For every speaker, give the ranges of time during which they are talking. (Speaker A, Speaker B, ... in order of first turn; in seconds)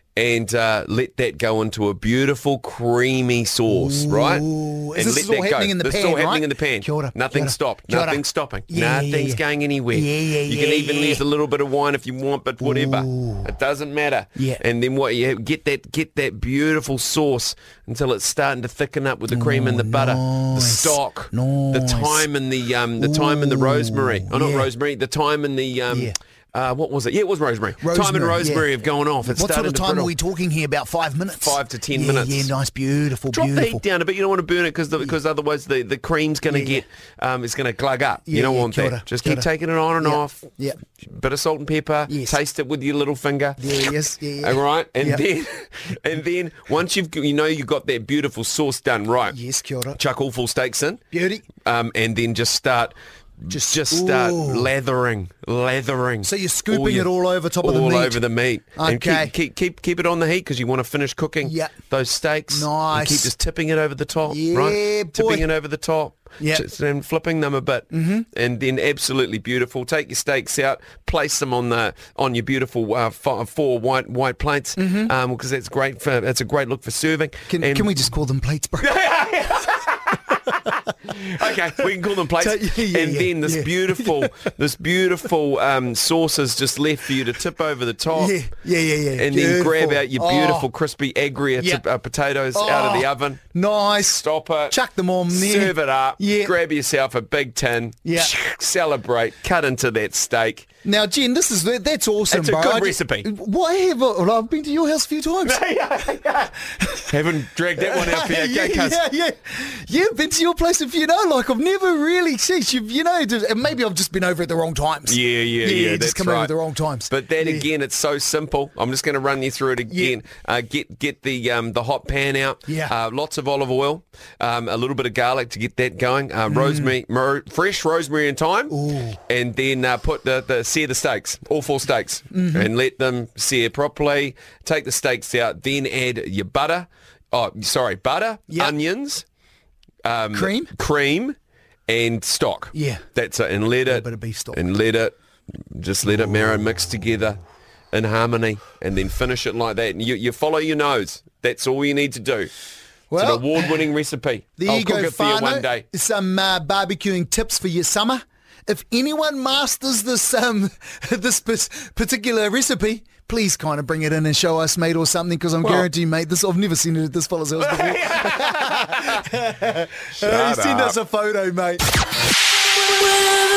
Speaker A: 0.2-30.1, 31.4-32.5, 33.3-40.5, 41.0-43.7, 44.4-49.4, 49.9-51.0, 51.6-78.0, 78.8-80.5, 81.1-88.4, 89.2-93.4, 94.0-94.8, 95.3-100.7, 102.3-103.3, 105.4-106.5, 107.1-109.0, 115.1-116.5, 117.1-128.8, 129.3-139.2, 140.1-141.4, 141.9-145.1, 145.7-147.4, 147.9-152.5, 153.2-155.8, 165.6-165.9, 167.6-169.3, 170.2-171.0
Speaker B: 3.7-11.2, 12.6-13.5, 14.4-14.6, 19.3-22.3, 23.0-24.7, 25.9-26.1, 27.8-28.7, 29.2-33.8, 36.5-36.9, 38.2-39.5, 40.0-40.8, 42.1-42.4, 43.6-45.2, 49.3-50.0, 51.1-51.5, 53.5-54.7, 56.2-58.2, 58.8-59.3, 61.4-61.8, 62.5-63.3, 64.3-65.5, 66.4-66.7, 67.9-68.3, 74.8-75.1, 77.5-78.9, 82.4-84.5, 88.1-90.7, 91.6-91.8, 92.5-96.5, 98.0-98.3, 100.8-105.6, 106.7-107.1, 107.8-117.7, 119.9-120.2, 122.7-122.9, 126.5-126.9, 128.7-129.2, 132.3-132.7, 138.5-138.8, 140.3-140.7, 142.7-143.0, 143.9-144.6, 153.1-153.9, 154.6-171.8